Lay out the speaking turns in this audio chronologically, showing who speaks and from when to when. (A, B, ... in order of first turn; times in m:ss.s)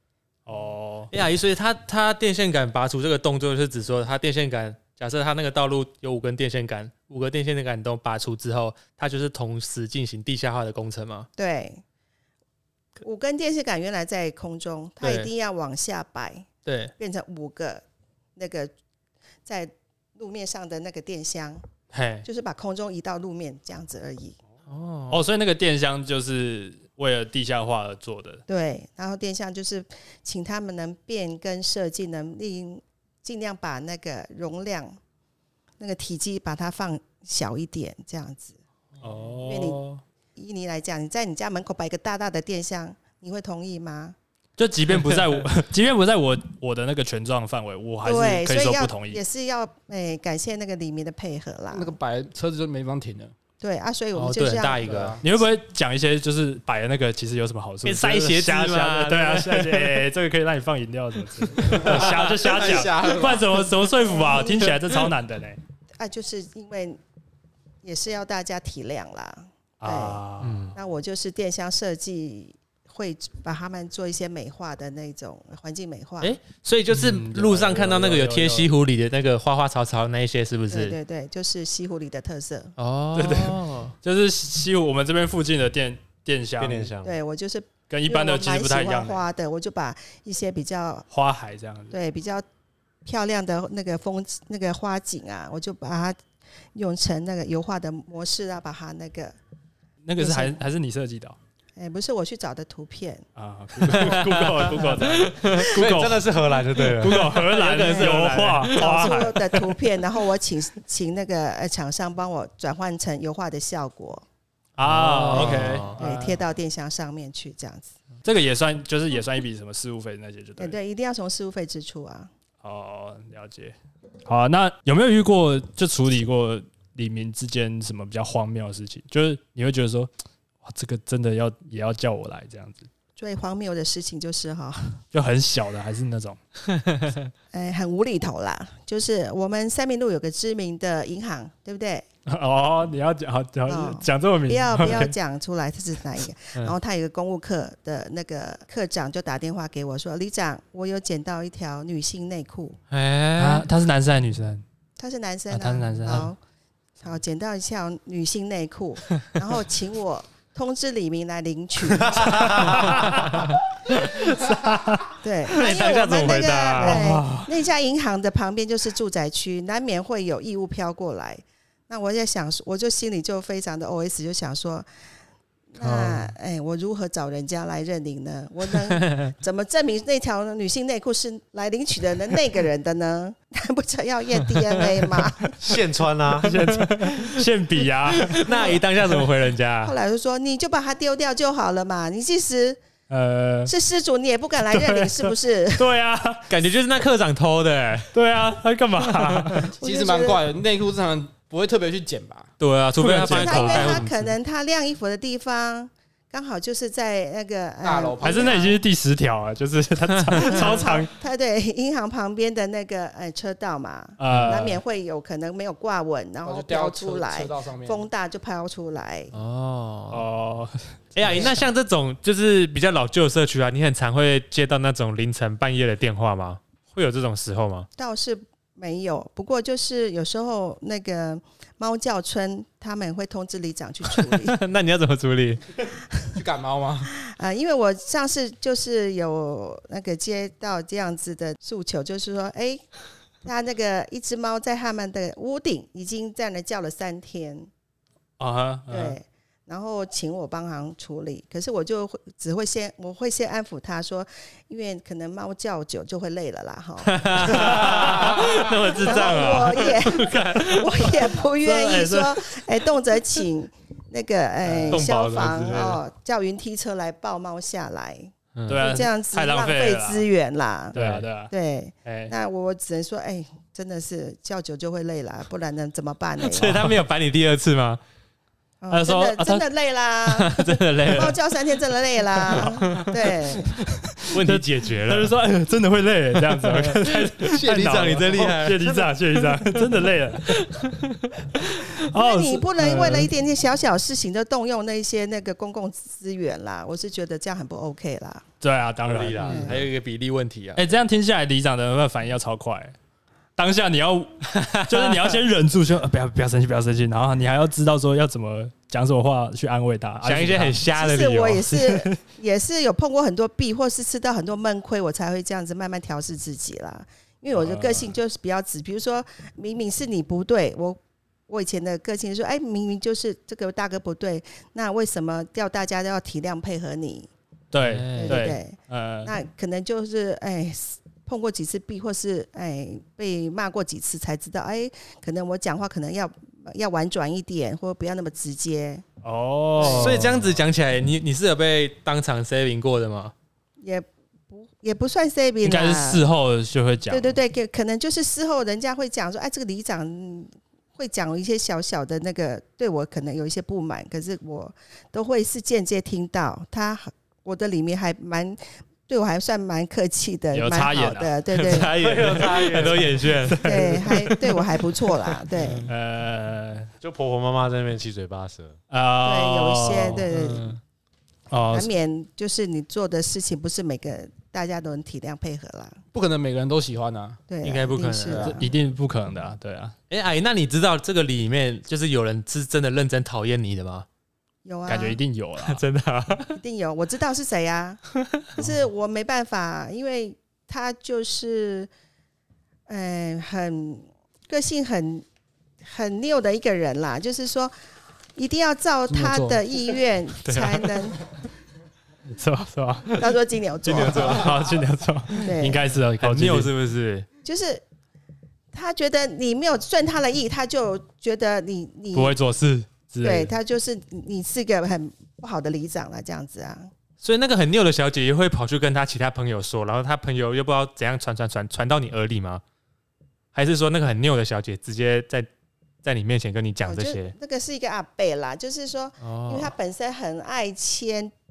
0:00.5-0:01.1 A
0:01.1-0:11.3 B
0:11.4-0:11.8 C
0:13.0-0:16.5 C
0:15.0-0:15.3 B
0:16.6-0:16.9 B
0:17.0-0:17.8 C
0:18.4-0:18.7 C
0:19.4-0:21.6 C
0:21.9-0:22.2 B
0:22.2-0:24.4 C
0:24.7-0:25.2 B
0:25.1-0:28.4 A
0:28.5-0:35.0 C
0:35.8-0:38.6 C
0:39.0-0:40.0 A
0:39.4-0:39.8 C
0:40.4-0:44.2 C
0:44.6-0:49.2 A
0:48.0-0:52.0 C
0:51.7-0:53.4 D
0:53.6-0:55.1 C
0:54.2-0:55.2 B
0:54.8-0:55.2 D
0:55.2-1:05.6 A
0:57.8-1:00.0 B
1:01.6-1:02.6 B
1:01.7-1:03.5 D
1:04.0-1:04.8 C
1:06.0-1:07.0 C
1:07.8-1:10.2 C
1:09.8-1:10.7 A
1:10.4-1:10.8 B
1:10.8-1:16.4 C
1:16.2-1:21.0 B
1:16.9-1:18.7 A
1:20.7-1:22.7 C
1:22.8-1:23.9 B
1:23.2-1:26.9 A
1:26.6-1:27.2 E
1:27.0-1:31.1 C
1:27.9-1:29.2 A
1:31.1-1:32.0 A
1:31.9-1:32.4 C
1:33.0-1:36.2 C
1:36.7-1:39.4 C
1:40.0-1:41.4 A
1:40.2-1:40.6 C
1:41.8-1:43.2 C
1:43.4-1:49.6 A
1:43.9-1:45.9 B
1:45.6-1:47.4 E
1:47.0-1:49.2 B
1:47.8-1:54.2 C
1:54.8-1:56.4 A
1:54.8-1:56.0 B
1:55.4-1:57.9 C
1:58.2-2:00.8 A
2:00.6-2:02.3 C
2:02.6-2:03.8 A
2:04.3-2:10.1 A
2:10.6-2:12.9 A
2:13.2-2:15.0 C
2:15.1-2:16.4 A
2:16.8-2:17.1 B
2:17.5-2:22.1 C
2:22.3-2:25.2 A
2:23.7-2:32.8 C
2:32.9-2:33.7 B
2:33.4-2:34.6 A
2:35.0-2:36.4 C
2:35.5-2:36.3 A
2:37.0-2:43.2 C
2:42.3-2:43.4 A
2:42.7-2:44.6 B
2:44.4-2:45.1 A
2:45.2-2:54.9 C
2:45.5-2:47.1 B
2:46.8-2:47.5 A
2:55.7-3:05.6 C
2:55.9-2:56.2 B
2:58.9-2:59.3 B
3:05.6-3:06.5 E
3:06.4-3:08.7 A
3:06.4-3:07.4 B
3:08.1-3:10.0 B
3:08.5-3:08.8 C
3:09.8-3:12.8 C
3:13.1-3:13.7 A
3:13.7-3:15.9 C
3:14.7-3:16.5 A
3:16.5-3:18.1 B
3:18.1-3:19.7 A
3:19.1-3:19.6 B
3:19.8-3:20.4 C
3:19.8-3:22.5 D
3:22.6-3:24.3 B
3:23.0-3:24.1 A
3:23.2-3:28.8 C
3:27.8-3:28.6 D
3:28.2-3:31.1 A
3:30.2-3:30.7 B
3:30.4-3:39.3 C
3:34.2-3:34.8 A
3:36.4-3:38.1 D
3:39.3-3:40.2 B
3:40.1-3:41.5 A
3:41.2-3:47.9 B
3:48.0-3:54.6 C
3:54.3-3:55.6 B
3:56.4-3:57.1 D
3:57.1-4:02.9 C
4:03.4-4:07.7 C
4:08.4-4:09.2 A
4:08.9-4:18.1 C
4:17.0-4:21.2 B
4:17.5-4:18.5 A
4:18.9-4:36.9 C
4:21.4-4:22.6 A
4:24.6-4:25.1 A
4:24.9-4:26.0 B
4:28.6-4:28.8 B
4:28.7-4:30.3 A
4:30.9-4:31.5 A
4:31.0-4:31.2 B
4:32.0-4:32.3 A
4:36.5-4:38.0 B
4:38.8-4:43.8 C
4:38.9-4:39.6 A
4:40.3-4:41.4 B
4:42.5-4:50.8 A
4:42.6-4:43.1 B
4:44.3-4:45.3 B
4:46.6-4:51.6 B
4:51.5-4:53.3 A
4:52.1-4:58.4 C
4:58.6-4:59.8 A
4:59.1-5:00.8 B
4:59.5-4:59.8 C
5:00.8-5:03.0 A
5:03.6-5:10.8 A
5:04.5-5:05.4 B
5:10.2-5:11.7 B
5:11.0-5:27.3 C
5:11.7-5:12.2 A
5:17.6-5:18.2 A
5:27.7-5:29.3 A
5:27.8-5:28.5 B
5:28.2-5:39.0 C
5:39.2-5:40.5 A
5:39.8-5:40.2 C
5:39.8-5:43.3 B
5:43.8-5:46.2 C
5:45.6-5:47.4 A
5:47.1-6:01.9 C
6:00.5-6:01.4 A
6:01.6-6:04.3 B
6:01.7-6:03.4 E
6:03.4-6:04.4 A
6:03.6-6:05.9 C
6:05.6-6:05.9 B
6:05.9-6:06.9 A
6:07.0-6:08.8 E
6:08.9-6:10.3 A
6:09.2-6:10.8 C
6:10.3-6:10.8 B
6:11.5-6:11.9 A
6:11.7-6:16.0 C
6:16.1-6:17.4 D
6:17.5-6:18.6 C
6:17.6-6:18.6 B
6:18.3-6:18.6 D
6:18.4-6:20.0 A
6:20.1-6:24.1 B
6:24.6-6:25.2 C
6:24.9-6:25.8 A
6:25.6-6:26.6 B
6:26.6-6:28.0 C
6:28.6-6:31.9 C
6:32.9-6:35.2 C
6:35.8-6:37.7 C
6:38.4-6:41.2 C
6:39.1-6:39.6 D
6:40.4-6:40.9 B
6:42.3-6:43.4 A
6:43.2-6:44.5 C
6:43.9-6:44.6 B
6:43.9-6:46.7 A
6:45.3-6:45.8 C
6:46.2-6:47.3 B
6:47.4-6:47.8 C
6:48.7-6:52.4 C
6:52.1-6:53.6 A
6:53.2-6:56.9 C
6:57.2-7:02.6 B
7:03.5-7:05.5 B
7:06.0-7:07.3 B
7:06.8-7:11.3 C
7:09.2-7:09.7 B